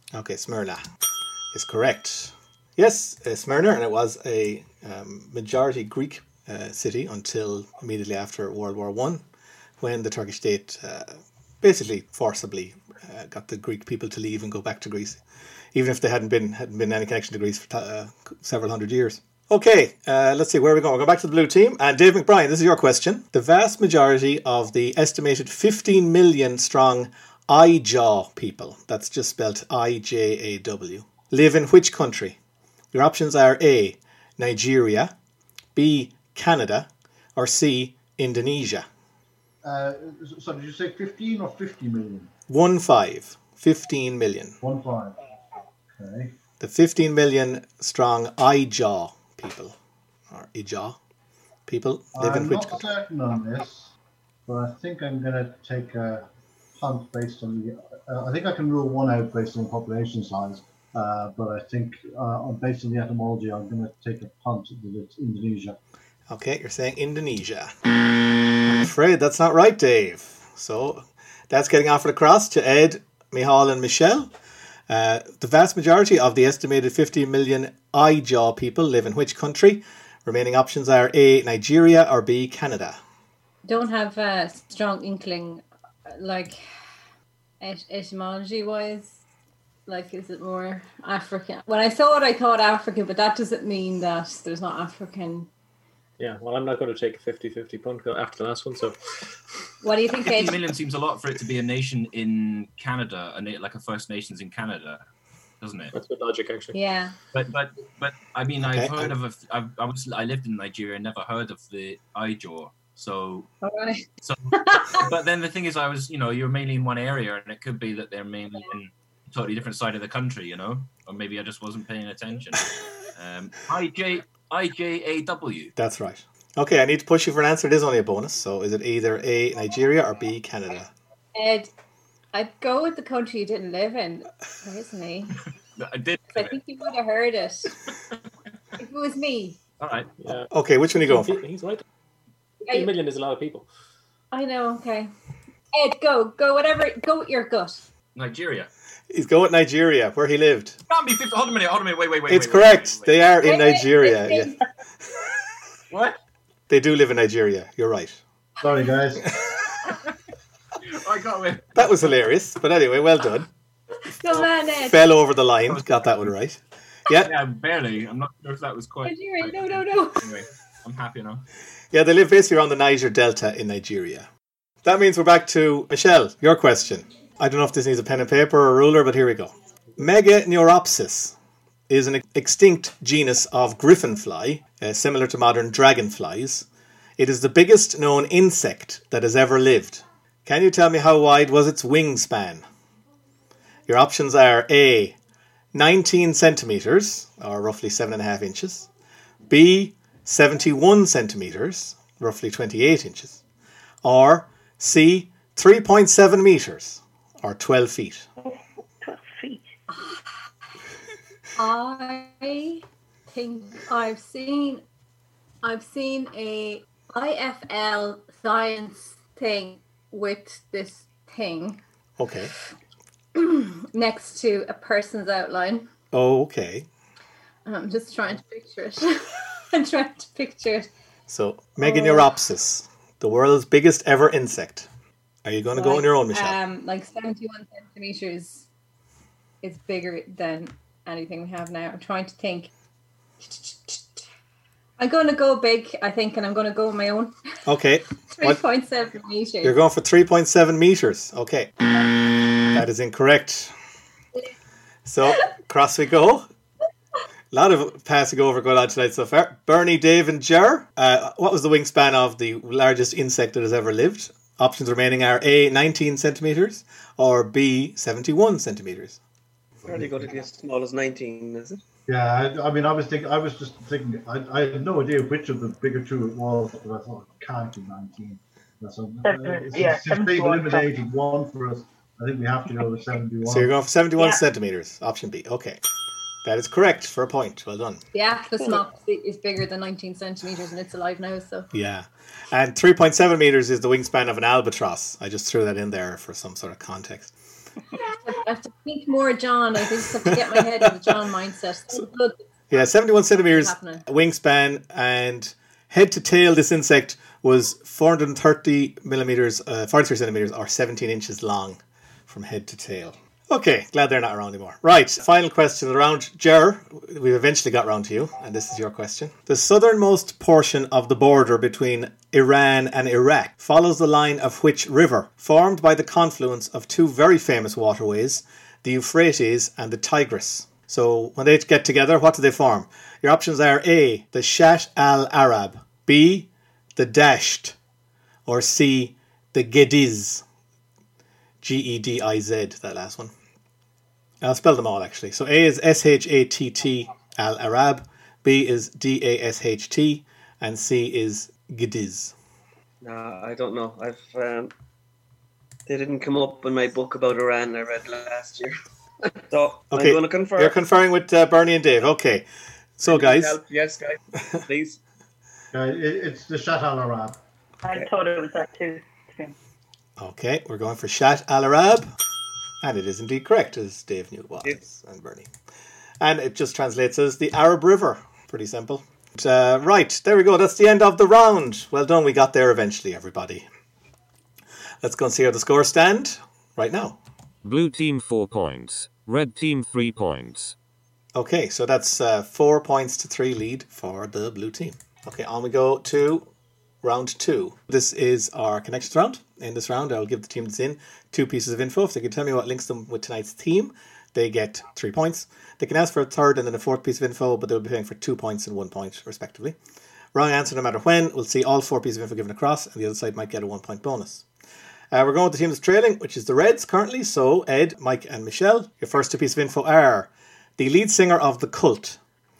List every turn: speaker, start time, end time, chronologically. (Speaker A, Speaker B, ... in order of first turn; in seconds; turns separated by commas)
Speaker A: 0.1-0.8, Speaker A: 1.5-9.2, Speaker A: 9.8-15.2, Speaker A: 15.7-32.4, Speaker A: 32.9-35.1, Speaker A: 35.8-38.9, Speaker B: 39.6-42.3, Speaker A: 42.5-44.6, Speaker B: 44.6-45.2, Speaker B: 45.9-46.4, Speaker A: 46.6-49.8, Speaker A: 50.3-51.0, Speaker A: 51.7-52.9, Speaker B: 52.1-54.0, Speaker B: 54.5-65.8, Speaker A: 66.3-67.7, Speaker A: 68.7-74.3, Speaker A: 74.9-83.0, Speaker C: 83.7-86.6, Speaker C: 87.6-89.2, Speaker C: 89.9-95.5, Speaker D: 96.2-99.0, Speaker C: 99.8-100.6, Speaker E: 100.2-105.0, Speaker E: 105.6-105.9, Speaker D: 105.9-106.8, Speaker C: 106.7-107.2, Speaker E: 107.3-113.5, Speaker A: 108.6-109.1, Speaker C: 113.6-115.0, Speaker E: 114.2-125.7, Speaker A: 125.8-130.9, Speaker C: 131.3-131.7, Speaker C: 132.3-135.4, Speaker E: 135.8-136.6, Speaker C: 136.3-137.7, Speaker C: 138.8-139.6, Speaker E: 139.8-140.1, Speaker D: 140.2-140.5, Speaker A: 140.5-141.4, Speaker D: 141.0-141.8, Speaker C: 142.7-142.9, Speaker D: 142.7-143.7, Speaker C: 144.3-145.1, Speaker C: 145.7-147.8, Speaker E: 148.2-148.7, Speaker A: 149.1-150.8, Speaker E: 150.9-153.2, Speaker A: 152.3-154.5, Speaker C: 153.4-154.6, Speaker E: 155.9-156.2, Speaker A: 156.7-158.2, Speaker B: 158.6-159.2, Speaker E: 160.8-162.0, Speaker A: 161.8-163.5, Speaker C: 164.1-165.0, Speaker A: 164.9-167.3, Speaker E: 167.2-171.4, Speaker C: 169.1-170.2, Speaker A: 171.9-174.3, Speaker A: 174.8-181.4, Speaker A: 181.9-186.7, Speaker A: 187.2-192.7, Speaker A: 193.9-195.2, Speaker A: 195.7-198.9, Speaker A: 199.5-203.4, Speaker A: 204.0-208.3, Speaker F: 208.4-209.7, Speaker C: 209.9-210.2, Speaker C: 211.6-214.8, Speaker C: 215.6-221.8, Speaker A: 222.2-222.5, Speaker C: 223.3-225.9, Speaker A: 226.1-226.9, Speaker C: 227.7-230.9, Speaker A: 231.3-234.9, Speaker C: 231.8-232.3, Speaker A: 235.4-236.6, Speaker C: 235.7-238.7, Speaker C: 239.6-242.7, Speaker C: 243.4-244.2, Speaker C: 245.0-247.3, Speaker A: 247.7-248.6, Speaker C: 248.3-249.8, Speaker A: 249.6-251.8, Speaker A: 252.6-253.7, Speaker A: 255.1-256.5, Speaker A: 257.5-269.2, Speaker G: 269.9-271.8, Speaker B: 269.9-270.2, Speaker B: 272.1-283.7, Speaker F: 279.2-280.9, Speaker A: 283.4-285.8, Speaker A: 286.4-288.0, Speaker C: 288.1-291.7, Speaker A: 291.7-297.3, Speaker C: 298.0-302.4, Speaker A: 300.2-300.9, Speaker A: 302.7-337.8, Speaker C: 303.3-304.0, Speaker A: 338.5-340.4, Speaker A: 341.6-343.3, Speaker A: 344.4-352.4, Speaker G: 353.0-354.7, Speaker G: 355.9-358.8, Speaker G: 359.5-360.8, Speaker A: 359.9-363.6, Speaker G: 363.1-365.0, Speaker B: 365.7-367.4, Speaker F: 367.8-369.6, Speaker A: 370.2-372.1, Speaker A: 372.8-375.5, Speaker A: 376.2-383.7, Speaker A: 385.0-387.2, Speaker H: 387.6-390.8, Speaker A: 391.4-396.5, Speaker A: 397.0-409.8, Speaker A: 410.3-414.5, Speaker A: 415.1-422.2